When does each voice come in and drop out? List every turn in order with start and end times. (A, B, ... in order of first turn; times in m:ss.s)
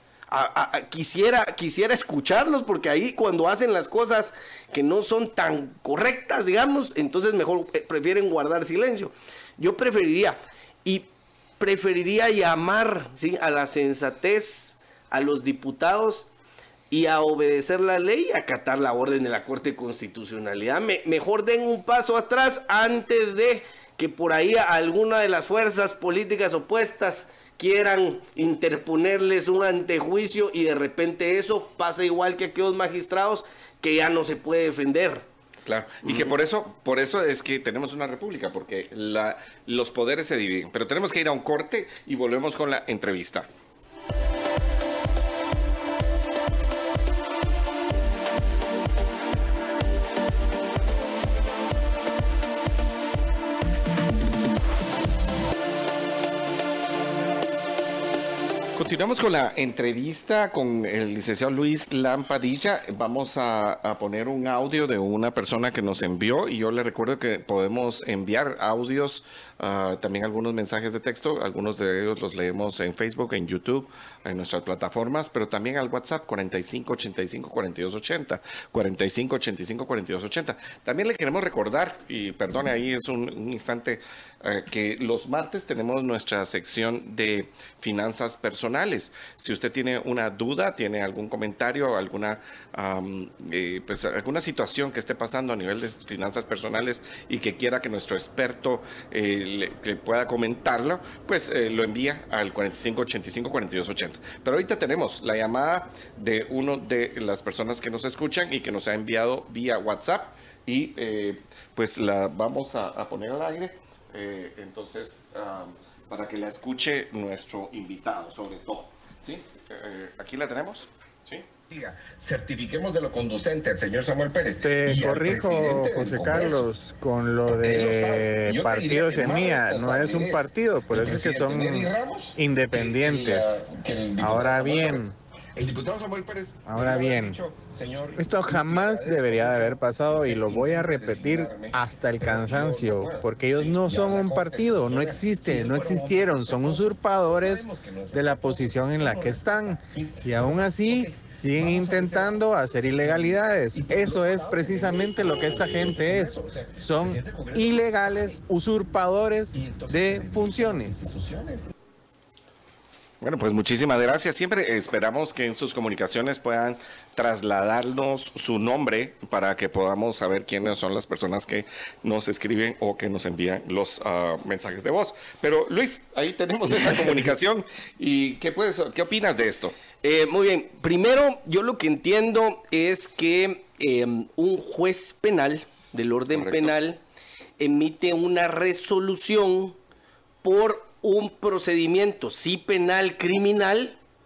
0:00.3-0:16.3 A
0:16.9-0:35.3 A
0:35.6-0:43.5 B
0:58.8-2:06.7 B
2:04.6-2:13.6 C
2:07.4-2:38.4 B
2:14.2-2:15.1 C
2:16.7-2:17.4 C
2:18.2-2:41.1 C
2:39.5-2:41.7 B
2:43.2-2:59.8 B
3:00.0-3:07.0 A
3:06.3-3:06.8 B
3:07.6-3:09.8 A
3:10.4-3:14.0 A